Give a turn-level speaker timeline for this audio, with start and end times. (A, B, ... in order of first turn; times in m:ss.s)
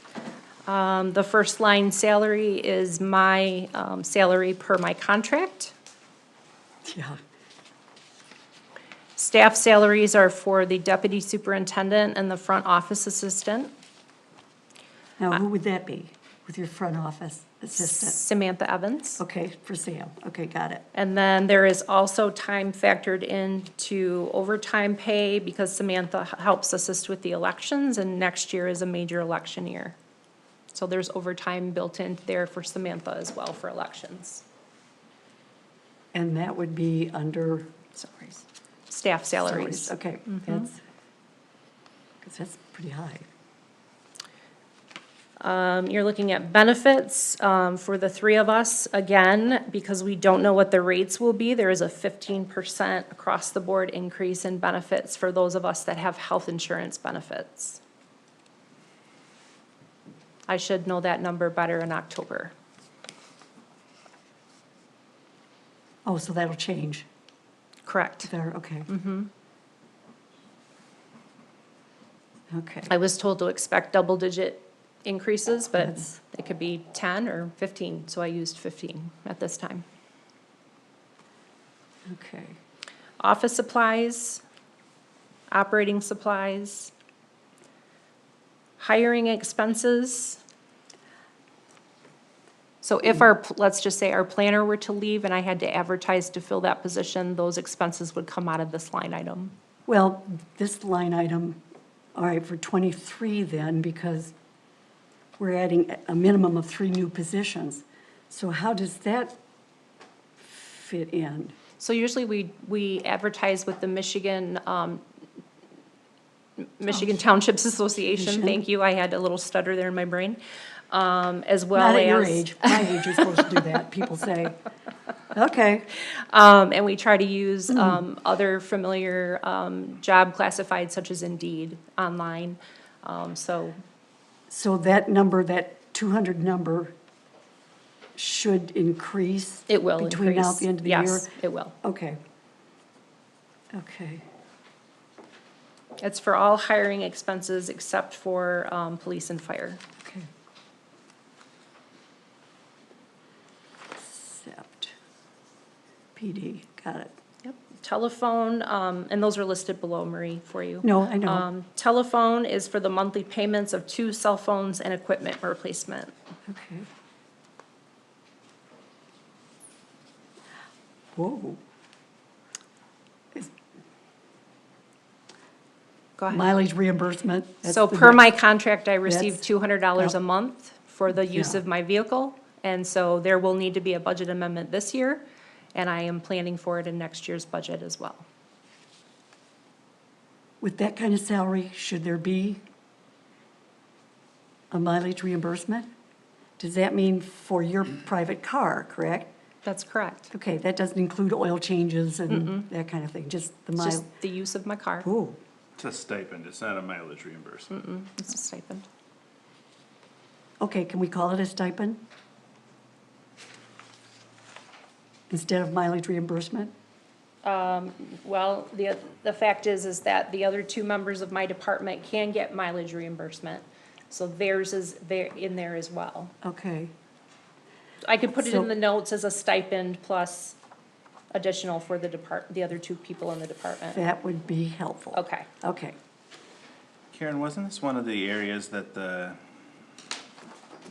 0:00.7-0:05.7 A
0:06.8-0:07.2 B
0:09.2-0:13.7 A
0:15.2-0:18.2 B
0:17.8-0:19.2 A
0:19.2-0:20.8 B
0:20.9-0:30.0 A
0:30.7-0:34.4 A
0:36.1-0:38.4 B
0:38.9-0:40.7 A
0:39.4-0:40.8 B
0:42.2-0:43.3 B
0:45.4-0:57.8 A
1:00.5-1:02.5 A
1:06.0-1:07.1 B
1:07.8-1:08.3 A
1:08.2-1:08.9 B
1:08.9-1:09.3 A
1:12.5-1:12.9 B
1:12.9-1:19.8 A
1:15.8-1:16.2 B
1:22.1-1:22.6 B
1:23.2-1:24.4 A
1:25.5-1:26.9 A
1:28.8-1:30.4 A
1:32.8-1:39.5 A
1:39.9-1:41.6 B
1:42.1-1:44.3 B
1:45.4-1:49.4 B
1:50.4-1:51.5 B
1:51.8-1:55.0 A
1:56.8-2:00.4 A
1:56.9-1:57.2 B
1:58.0-1:58.6 B
2:00.9-2:02.8 A
2:01.7-2:04.6 B
2:05.3-2:05.9 B
2:06.0-2:13.8 A
2:07.7-2:08.0 B
2:14.5-2:16.9 B
2:18.1-2:22.2 B
2:19.7-2:21.7 A
2:23.7-2:24.2 B
2:26.0-2:29.8 A
2:30.0-2:30.3 B
2:34.0-2:34.9 B
2:36.2-2:37.2 B
2:37.4-2:46.1 A
2:40.8-2:41.5 B
2:46.5-2:46.9 B
2:51.1-2:51.6 B
2:56.2-2:56.5 A
2:56.3-2:58.3 B
2:57.6-3:05.2 A
2:59.0-3:00.1 B
3:01.3-3:01.6 B
3:05.7-3:08.2 A
3:10.6-3:12.6 B
3:14.7-3:15.9 B
3:16.6-3:19.3 B
3:19.6-3:20.3 A
3:20.3-3:24.1 B
3:22.3-3:22.7 A
3:23.8-3:25.1 A
3:25.0-3:25.4 B
3:25.8-3:27.7 C
3:27.7-3:28.8 A
3:30.6-3:32.0 B
3:35.3-3:36.7 B
3:37.4-3:46.3 A
3:46.4-3:46.9 B
3:48.0-3:50.6 A
3:48.4-3:48.7 B
3:51.3-3:54.0 A
3:53.9-3:56.0 B
3:55.1-3:55.5 A
3:57.1-3:59.4 C